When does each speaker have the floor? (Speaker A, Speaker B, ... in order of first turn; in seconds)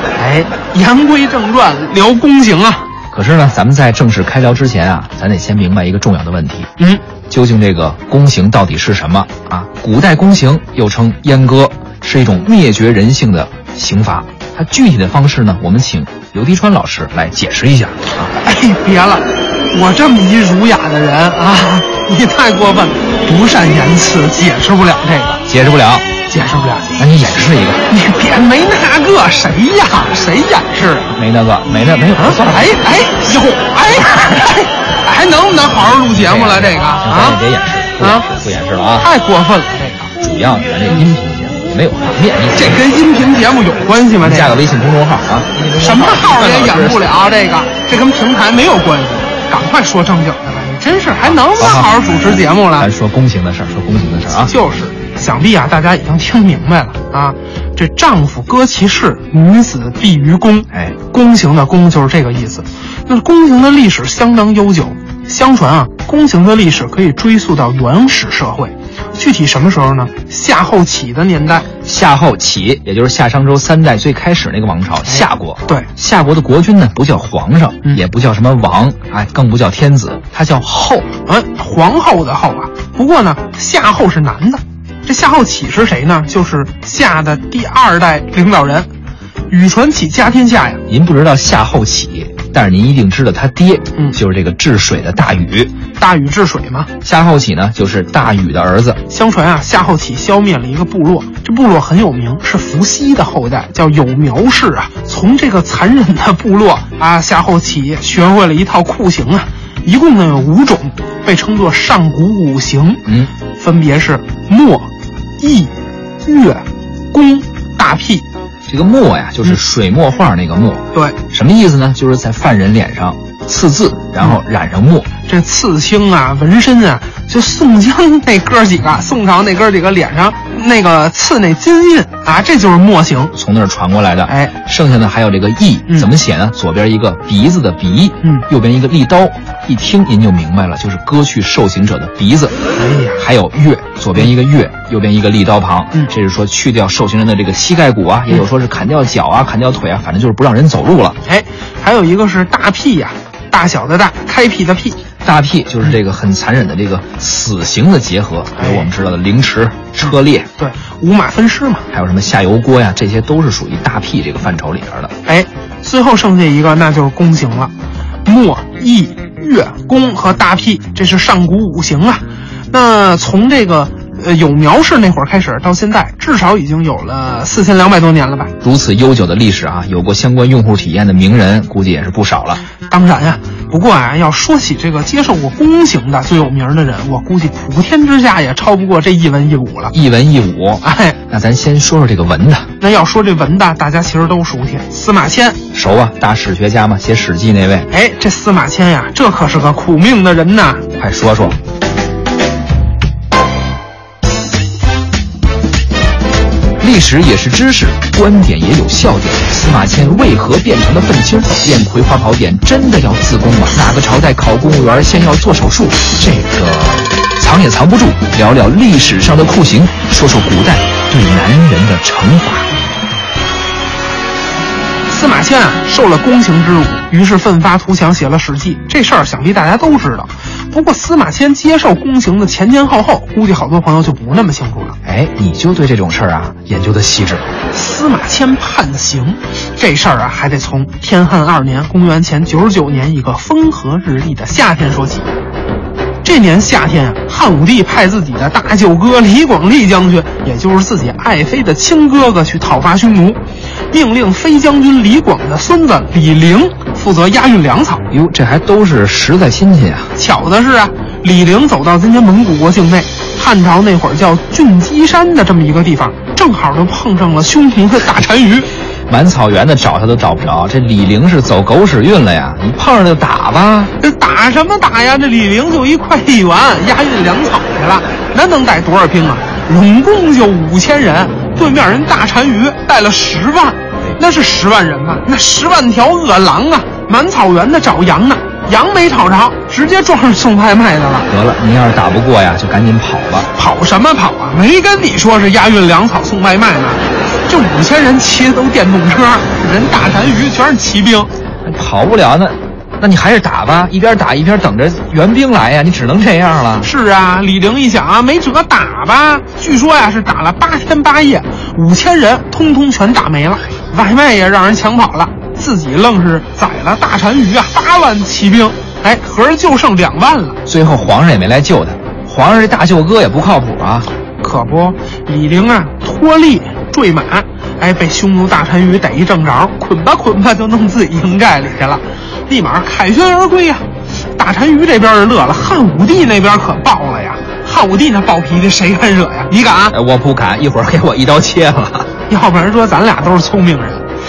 Speaker A: 0.2-2.9, 18.4-25.4, 26.3-26.9, 27.9-31.1, 32.2-37.4, 38.0-38.3, 39.0-40.1, 42.5-44.6, 45.8-52.9, 54.5-71.7, 75.1-75.9, 81.2-88.9, 89.5-90.8, 96.0-96.9, 99.1-113.0, 113.6-114.9, 115.4-115.7, 116.2-118.2, 125.2-133.3, 134.3-134.5, 142.8-143.2, 151.2-155.0, 158.6-158.9, 160.0-161.9, 165.2-167.7, 168.2-178.5, 182.9-189.9, 190.8-191.2, 192.8-195.6, 197.9-200.9, 225.1-235.0, 237.7-245.3, 246.2-258.1, 260.2-268.7, 274.0-291.3, 293.6-301.3, 306.8-320.6, 324.4-339.9, 342.3-344.1
Speaker B: 3.1-6.7, 7.3-18.3, 25.5-26.1, 27.0-27.8, 31.1-32.8, 36.1-39.1, 40.2-42.8, 44.2-47.1, 51.2-54.5, 71.8-81.1, 90.9-95.7, 97.0-99.0, 113.1-113.3, 118.7-125.1, 133.3-142.6, 143.2-151.2, 155.2-160.5, 161.9-165.1, 178.6-182.6, 189.9-192.7, 195.7-197.9, 201.0-201.6, 206.8-222.7, 235.1-237.5, 258.1-260.1, 269.1-273.9, 291.3-293.5, 301.6-306.9, 320.7-324.1, 339.9-342.1